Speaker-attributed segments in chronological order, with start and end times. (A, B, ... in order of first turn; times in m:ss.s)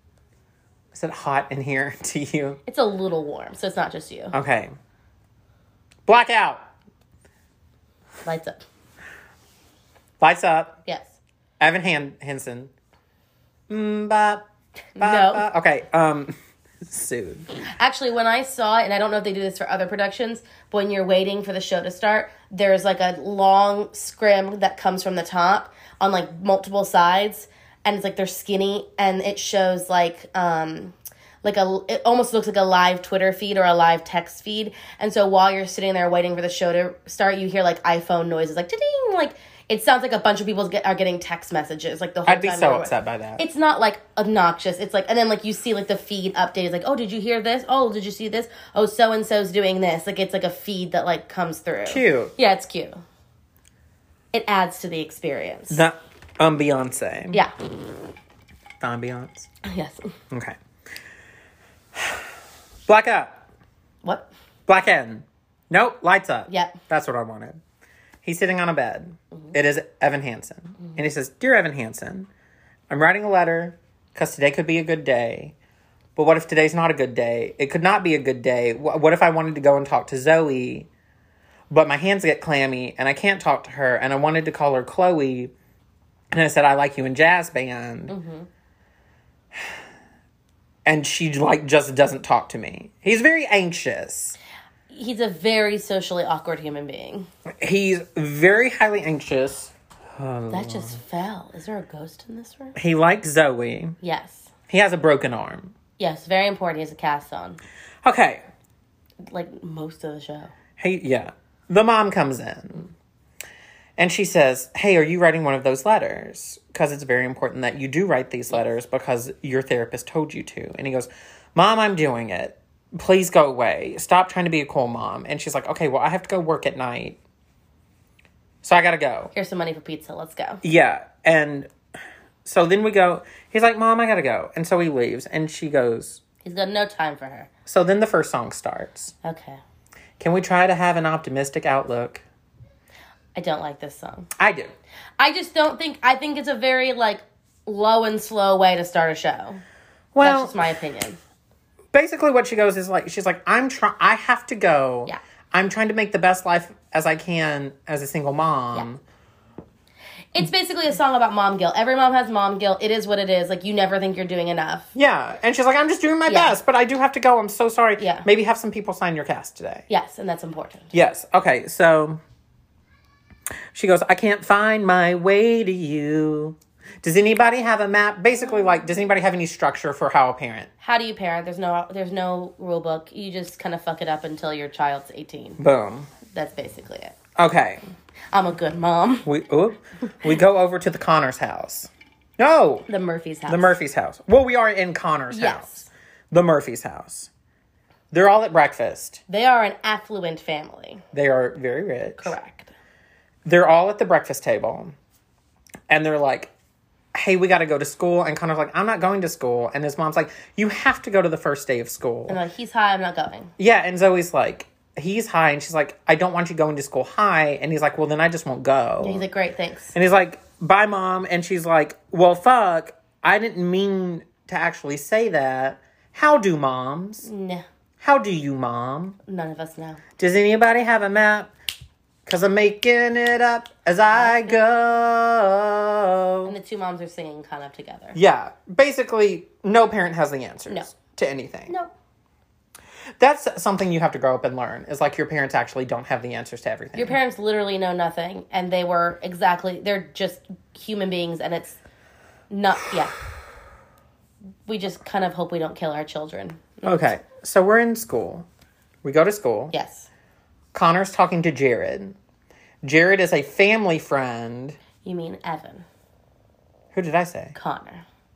0:00.9-0:02.6 A
0:02.7-0:04.4 B
0:04.3-0:04.7 A
0:06.1-0:06.6 A
0:08.2-0:08.6 B
0:10.2-0:10.8 A
0:10.9-0:11.2 B
0:11.6-0:12.7 A
0:13.7-0:14.5 A
0:15.0-0:15.5 B
0:15.0-0:17.5 A
0:17.8-0:53.0 B
0:42.3-0:43.4 A
0:51.9-0:52.3 A
0:54.3-0:55.8 B
0:55.7-0:57.4 A
0:58.8-0:59.5 A
0:59.6-1:00.1 B
1:00.3-1:00.6 A
1:01.9-1:02.3 A
1:02.9-1:03.4 A
1:04.0-1:04.3 B
1:04.7-1:07.6 A
1:06.5-1:06.8 B
1:08.2-1:12.3 A
1:12.9-1:15.5 A
1:16.2-1:20.9 A
1:21.7-1:25.5 A
1:26.3-1:28.1 A
1:28.1-1:28.5 B
1:30.8-1:34.4 A
1:34.9-1:37.3 B
1:37.6-1:41.0 A
1:40.5-1:42.8 B
1:42.8-1:44.0 A
1:44.0-1:44.5 B
1:44.7-1:45.8 A
1:46.0-1:47.6 B
1:48.0-1:48.4 A
1:49.2-1:50.5 B
1:50.8-1:52.9 A
1:54.0-2:07.2 A
2:08.6-2:09.3 A
2:09.4-2:10.6 B
2:10.6-2:11.7 A
2:12.4-2:16.2 A
2:16.4-2:17.5 B
2:17.7-2:19.2 A
2:19.2-2:19.6 B
2:20.2-2:22.2 A
2:23.4-2:24.3 B
2:24.4-2:24.7 A
2:25.2-2:29.6 B
2:30.1-2:30.6 A
2:30.2-2:31.2 B
2:31.9-2:39.0 A
2:40.3-2:44.9 B
2:45.0-2:49.8 A
2:46.3-2:46.6 B
2:48.0-2:48.3 B
2:49.9-2:50.9 B
2:50.9-2:52.2 A
2:53.7-3:00.7 A
3:00.8-3:05.6 B
3:05.6-3:06.1 A
3:06.3-3:07.2 B
3:07.4-3:07.8 A
3:08.3-3:09.3 B
3:09.3-3:12.9 A
3:12.9-3:13.8 B
3:13.5-3:17.3 A
3:15.3-3:15.9 B
3:18.1-3:19.2 A
3:19.3-3:21.0 B
3:21.1-3:22.4 A
3:22.2-3:22.7 B
3:23.4-3:25.0 A
3:25.9-3:26.5 A
3:27.2-3:32.4 A
3:32.3-3:33.5 B
3:33.6-3:39.2 A
3:39.0-3:39.9 B
3:39.9-3:47.3 A
3:47.2-3:47.6 B
3:48.0-3:49.2 A
3:49.3-3:50.0 B
3:50.2-3:51.5 A
3:52.3-3:56.5 A
3:54.1-3:54.6 B
3:56.4-3:58.2 B
3:58.1-4:01.7 A
4:03.2-4:07.2 A
4:07.0-4:11.8 B
4:12.5-4:13.1 B
4:14.7-4:17.0 B
4:16.8-4:18.5 A
4:19.0-4:19.7 A
4:19.7-4:20.1 B
4:20.7-4:22.2 A
4:22.8-4:24.8 A
4:25.0-4:25.8 B
4:26.9-4:27.6 A
4:27.6-4:28.0 B